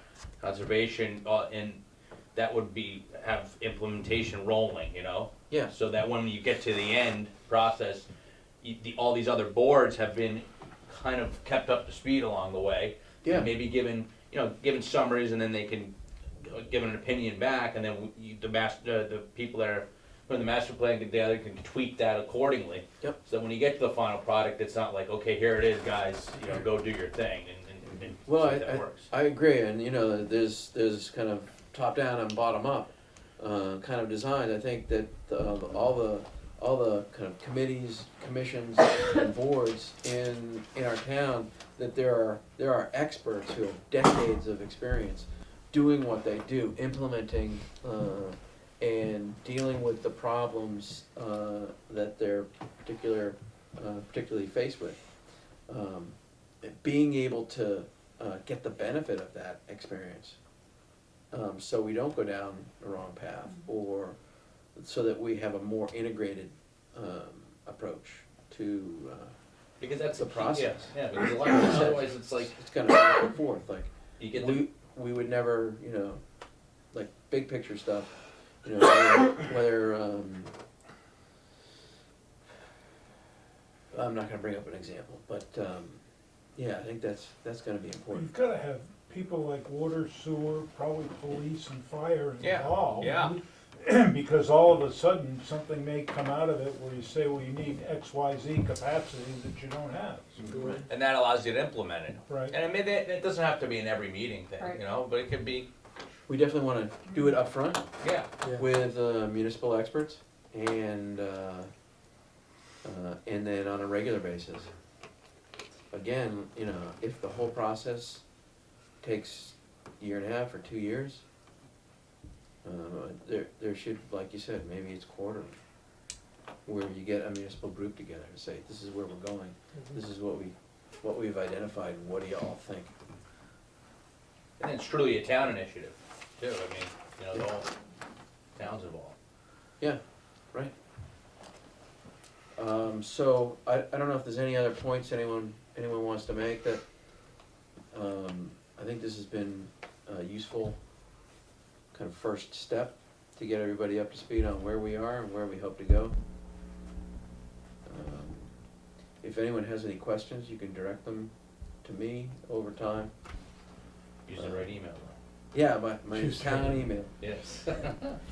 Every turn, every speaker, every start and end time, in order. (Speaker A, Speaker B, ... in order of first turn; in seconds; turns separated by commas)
Speaker A: 0.4-1.8, Speaker A: 2.3-8.1, Speaker A: 8.6-29.1, Speaker B: 13.2-13.5, Speaker B: 28.2-55.0, Speaker B: 55.7-60.4, Speaker B: 61.3-64.2, Speaker B: 64.7-69.3, Speaker A: 69.8-72.5, Speaker B: 70.2-76.2, Speaker A: 74.2-74.6, Speaker B: 76.9-78.1, Speaker B: 78.6-80.5, Speaker B: 83.9-86.0, Speaker B: 86.5-88.3, Speaker C: 88.1-100.6, Speaker A: 92.4-93.4, Speaker B: 100.4-100.8, Speaker A: 100.9-105.7, Speaker C: 102.3-102.5, Speaker B: 106.3-107.8, Speaker A: 108.0-108.3, Speaker B: 108.5-111.7, Speaker B: 112.8-114.7, Speaker B: 115.9-118.2, Speaker B: 119.0-121.2, Speaker B: 122.6-125.5, Speaker B: 126.7-132.9, Speaker A: 134.6-137.7, Speaker A: 138.6-139.2, Speaker B: 142.6-146.8, Speaker B: 147.9-150.8, Speaker B: 151.9-156.2, Speaker B: 157.8-158.5, Speaker B: 159.2-161.3, Speaker B: 161.8-163.1, Speaker A: 164.2-165.2, Speaker B: 164.4-164.7, Speaker B: 165.5-167.1, Speaker C: 166.2-166.7, Speaker A: 167.2-168.2